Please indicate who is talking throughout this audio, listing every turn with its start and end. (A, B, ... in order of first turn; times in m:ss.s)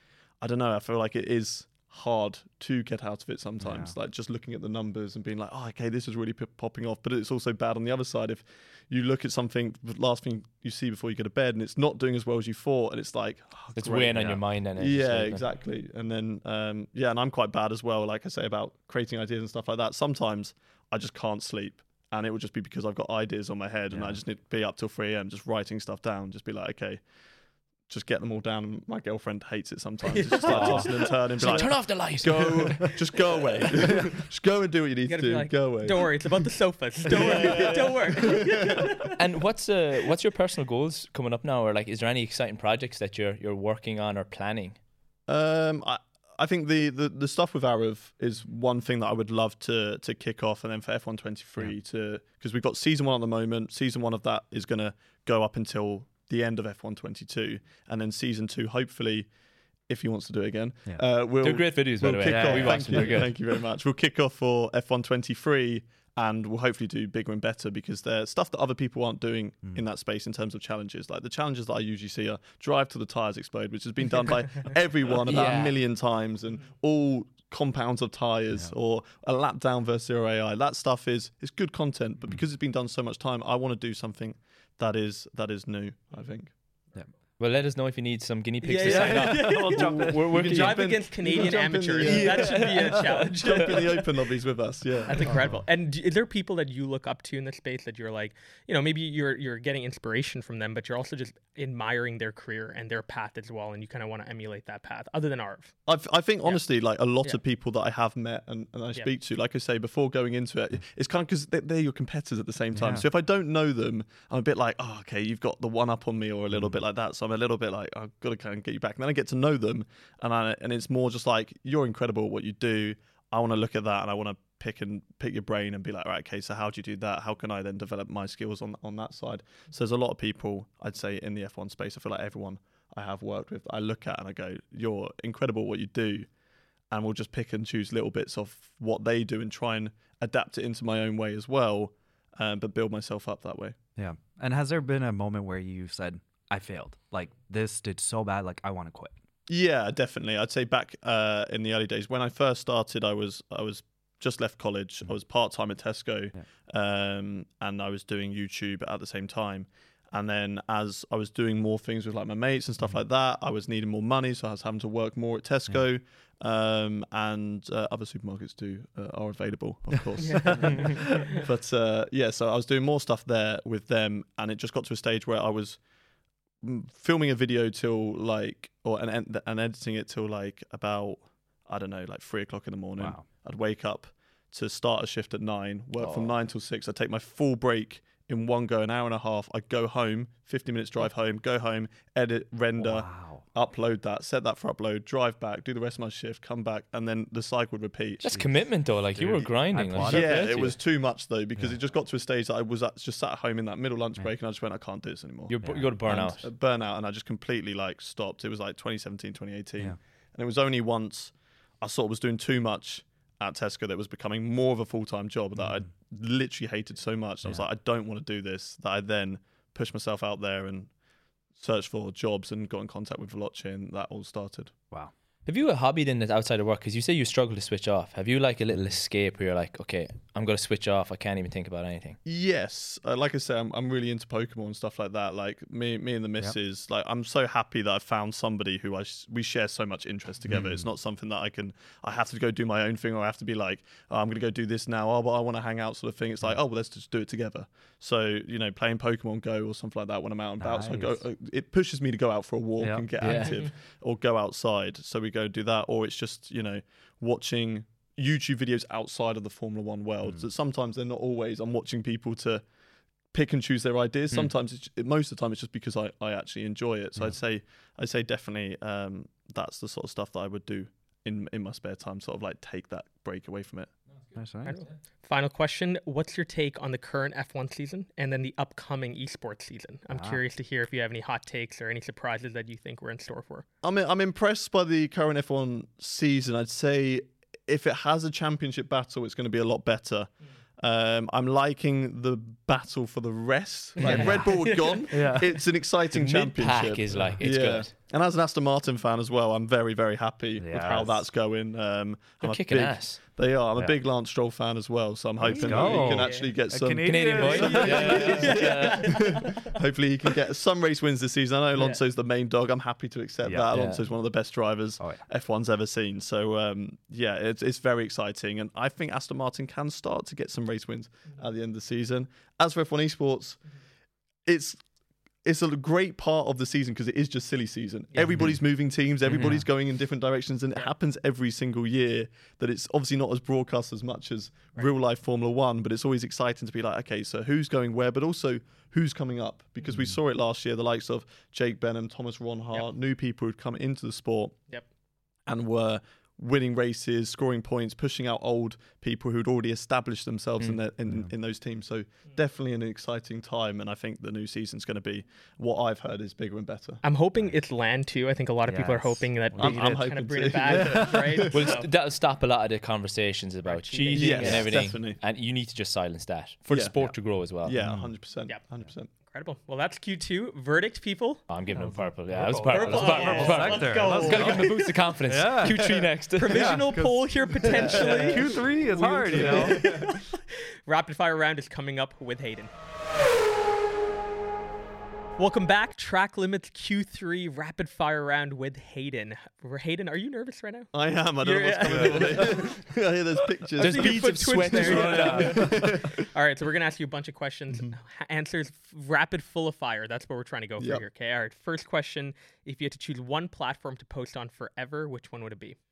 0:00.4-0:27.0 A
0:03.6-0:04.0 B
0:13.8-0:15.4 C
0:14.2-0:14.4 B
0:23.9-0:24.2 B
0:27.9-0:36.2 A
0:30.1-0:30.9 D
0:30.5-0:32.9 C
0:30.5-0:31.0 B
0:35.1-0:39.1 D
0:37.1-0:38.9 A
0:37.2-0:37.9 C
0:39.1-0:44.8 C
0:45.3-0:59.3 A
0:59.8-1:26.5 A
1:01.4-1:03.4 C
1:02.2-1:03.3 B
1:15.2-1:15.8 C
1:27.4-1:30.9 C
1:28.6-1:34.2 D
1:28.8-1:30.4 B
1:29.7-1:35.5 A
1:32.0-1:33.2 B
1:32.2-1:33.0 C
1:35.1-1:45.9 D
1:35.2-1:35.6 B
1:45.9-2:16.3 A
1:52.7-1:53.0 B
2:16.9-2:23.8 A
2:24.0-2:29.1 B
2:29.5-2:55.8 A
2:50.2-2:51.4 D
2:56.6-3:18.3 A
3:03.0-3:03.2 B
3:06.0-3:06.3 C
3:12.8-3:13.4 B
3:18.2-3:20.8 C
3:19.1-3:20.4 B
3:20.0-3:40.9 A
3:25.5-3:26.5 C
3:25.6-3:25.9 B
3:35.6-3:35.8 B
3:41.6-3:44.7 A
3:45.5-3:52.2 C
3:52.2-4:22.6 A
4:00.5-4:00.9 B
4:10.6-4:11.2 B
4:12.8-4:13.4 B
4:13.2-4:13.6 C
4:23.3-4:33.9 A
4:34.4-4:34.8 B
4:34.6-4:43.7 D
4:40.1-4:40.4 B
4:43.8-5:23.6 A
4:54.0-4:55.4 D
4:54.0-4:54.5 C
4:54.1-4:55.6 B
4:56.1-4:57.9 C
4:57.1-4:57.4 B
5:00.6-5:01.3 B
5:02.4-5:03.2 C
5:05.4-5:08.8 B
5:05.5-5:06.5 D
5:07.0-5:09.4 C
5:07.4-5:09.7 D
5:11.8-5:12.0 D
5:13.4-5:13.7 B
5:13.7-5:14.0 C
5:24.5-5:24.8 A
5:25.4-5:44.6 A
5:28.2-5:28.4 D
5:28.3-5:28.6 B
5:29.3-5:29.7 B
5:39.9-5:40.2 B
5:45.5-5:57.0 A
5:51.0-5:51.3 B
5:57.0-6:01.9 D
5:58.7-5:59.8 B
5:59.6-6:01.7 A
6:00.7-6:01.3 B
6:01.5-6:07.8 C
6:03.6-6:04.9 D
6:04.1-6:05.2 A
6:06.7-6:09.1 A
6:07.8-6:08.2 B
6:09.1-6:11.4 D
6:11.5-6:16.8 C
6:11.7-6:20.2 B
6:12.7-6:15.0 D
6:14.0-6:14.4 A
6:16.4-6:18.7 D
6:17.6-6:20.1 A
6:19.2-6:22.7 D
6:25.4-6:32.8 D
6:30.9-6:36.3 A
6:31.9-6:32.7 B
6:33.8-6:35.6 C
6:33.8-6:45.8 D
6:35.2-6:35.9 B
6:37.7-6:38.0 A